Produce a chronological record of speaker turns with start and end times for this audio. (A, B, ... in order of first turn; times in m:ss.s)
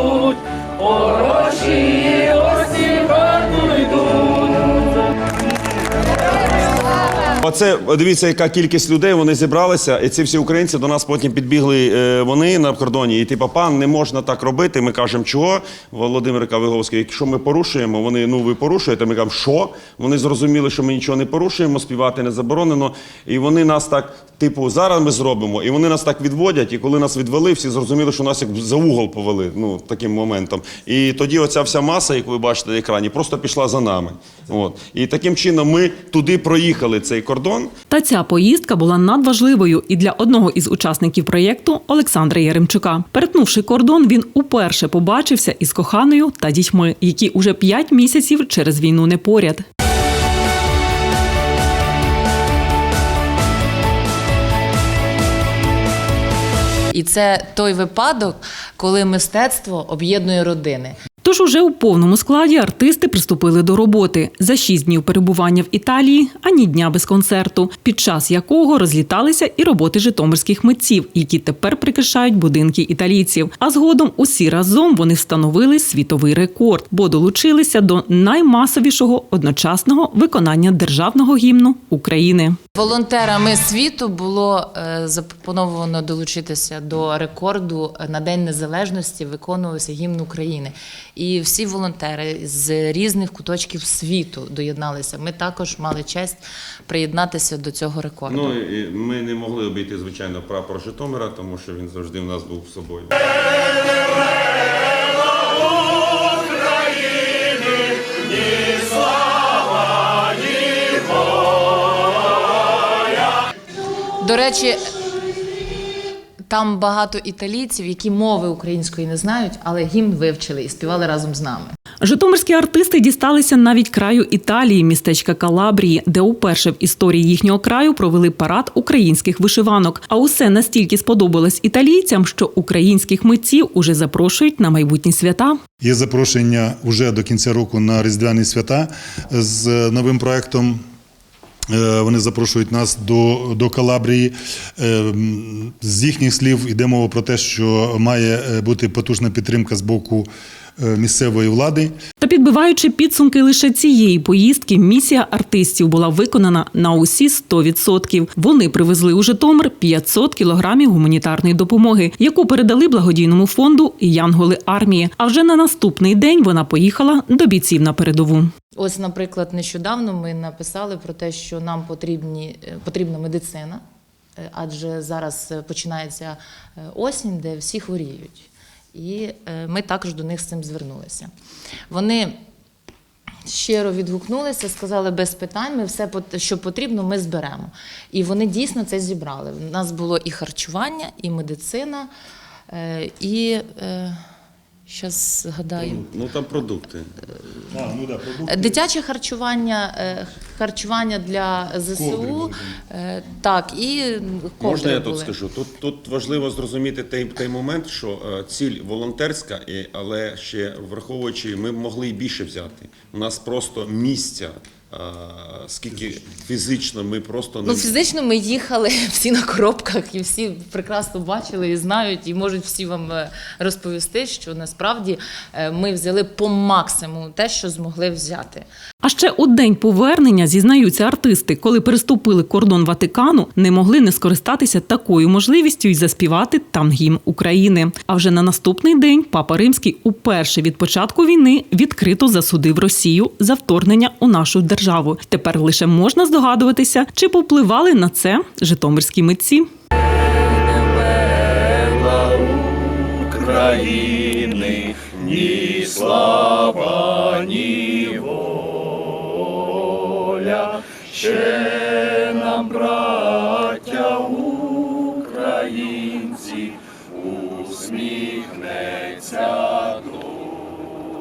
0:01.5-0:02.2 A
0:07.4-0:37.7 B
0:37.9-0:49.6 A
0:56.9-1:00.9 C
1:01.2-1:22.6 A
1:22.8-1:38.6 C
1:38.3-1:43.1 B
1:54.2-1:54.8 C
1:56.5-2:01.7 C
2:02.0-2:15.6 A
2:15.8-2:20.8 D
2:21.7-2:30.3 D
2:30.8-2:31.9 D
2:32.2-2:48.5 A
2:48.8-2:53.8 C
2:54.4-3:01.3 C
3:01.9-3:02.4 C
3:03.5-3:12.1 C
3:12.7-3:14.2 C
3:14.9-3:16.1 C
3:15.9-3:17.1 B
3:17.7-3:18.8 D
3:18.5-3:25.3 C
3:21.9-3:22.7 D
3:24.6-3:38.0 B
3:37.6-3:48.7 C
3:49.0-4:09.7 A
4:13.4-4:14.9 A
4:15.3-4:18.3 E
4:20.4-4:20.7 E
4:21.3-4:24.5 E
4:25.4-4:26.6 E
4:27.5-4:28.4 E